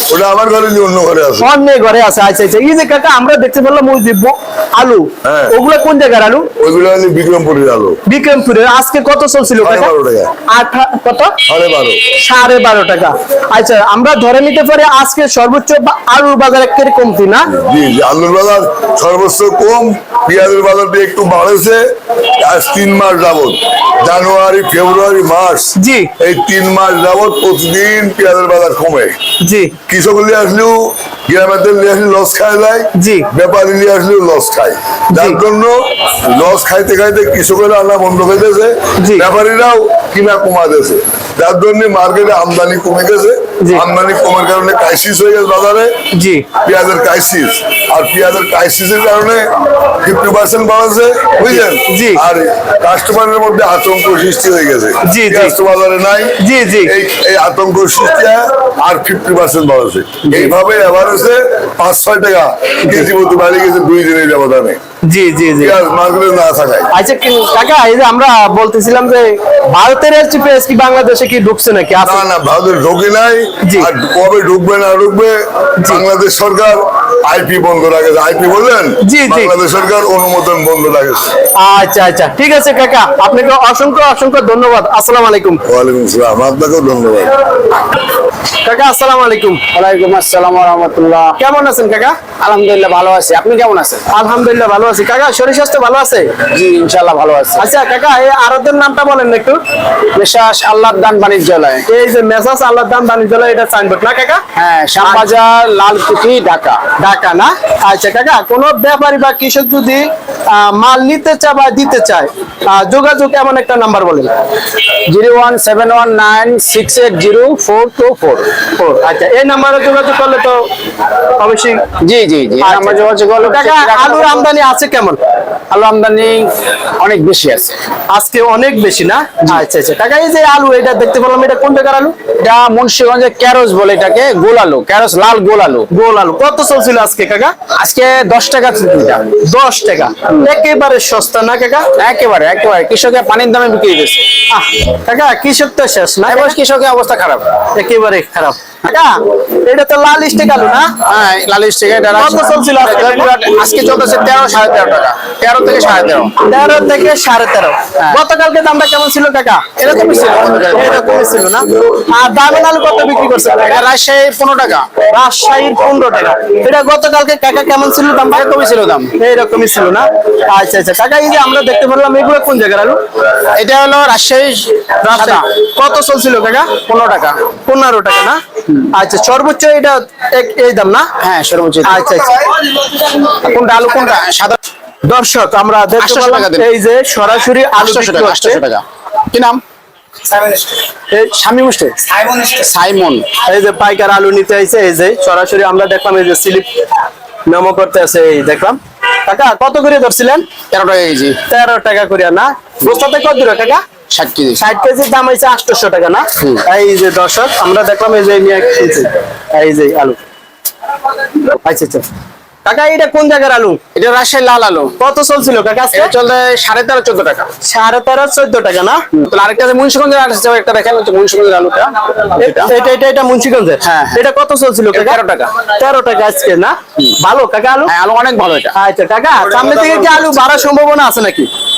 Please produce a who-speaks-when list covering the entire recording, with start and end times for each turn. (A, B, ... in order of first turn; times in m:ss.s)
0:00.1-0:01.5 A
0:01.4-0:06.5 B
0:05.2-0:05.6 A
0:06.6-0:08.0 A
0:08.1-0:09.9 B
0:09.6-0:10.3 A
0:10.5-0:11.4 B
0:11.5-0:12.0 A
0:12.2-0:17.5 B
0:17.5-0:21.8 A
0:22.4-0:29.2 A
0:25.8-0:26.1 B
0:29.4-0:29.8 B
0:29.9-0:45.9 A
0:33.0-0:33.3 B
0:35.1-0:35.4 B
0:39.0-0:39.3 B
0:46.1-0:46.5 B
0:46.6-1:04.8 A
0:51.4-0:52.2 B
0:55.0-0:55.6 B
0:56.4-0:56.9 B
1:00.2-1:00.5 B
1:02.8-1:03.1 B
1:05.0-1:05.8 B
1:05.5-1:06.9 A
1:06.9-1:12.2 B
1:12.0-1:21.3 A
1:13.6-1:13.9 B
1:19.0-1:19.5 B
1:21.6-1:25.6 B
1:25.7-1:27.4 A
1:28.6-1:29.6 B
1:29.7-1:31.3 C
1:31.4-1:32.2 B
1:32.4-1:34.0 C
1:34.1-1:36.4 B
1:36.5-1:37.6 C
1:37.6-1:39.6 B
1:40.2-1:41.8 C
1:41.9-1:44.4 B
1:44.6-1:46.8 C
1:45.0-1:45.3 B
1:47.0-1:54.3 B
1:55.1-1:58.5 C
1:58.8-2:00.6 B
2:01.4-2:01.9 B
2:02.0-2:04.5 C
2:02.6-2:05.2 B
2:05.7-2:07.8 C
2:08.1-2:12.2 B
2:12.4-2:15.9 C
2:15.9-2:17.5 B
2:17.8-2:19.2 C
2:19.4-2:21.9 B
2:22.0-2:24.2 C
2:24.5-2:26.6 B
2:26.3-2:27.5 C
2:27.8-2:30.9 B
2:31.0-2:36.4 C
2:32.2-2:33.3 B
2:36.4-2:43.8 B
2:39.8-2:41.1 C
2:43.6-2:44.9 C
2:45.1-2:48.5 B
2:48.3-2:49.1 C
2:49.2-2:53.0 B
2:53.6-2:55.4 C
2:55.0-2:56.8 B
2:56.8-2:57.4 C
2:57.7-2:58.4 B
2:58.9-3:01.1 B
3:01.2-3:02.3 C
3:01.8-3:02.5 B
3:03.1-3:04.6 C
3:05.1-3:08.6 B
3:06.0-3:06.7 C
3:07.8-3:09.6 C
3:10.2-3:13.3 C
3:13.4-3:16.7 B
3:17.5-3:20.5 B
3:20.7-3:21.4 C
3:21.5-3:23.8 B
3:24.1-3:24.6 C
3:24.6-3:30.2 B
3:26.4-3:26.6 C
3:31.5-3:32.0 B
3:32.6-3:33.8 B
3:33.9-3:35.0 C
3:35.0-3:36.1 B
3:35.9-3:37.5 C
3:37.6-3:39.0 B
3:39.1-3:42.7 C
3:42.4-3:47.9 B
3:43.8-3:44.2 C
3:44.9-3:45.6 C
3:47.9-3:48.8 C
3:48.8-3:51.5 B
3:49.6-3:50.3 C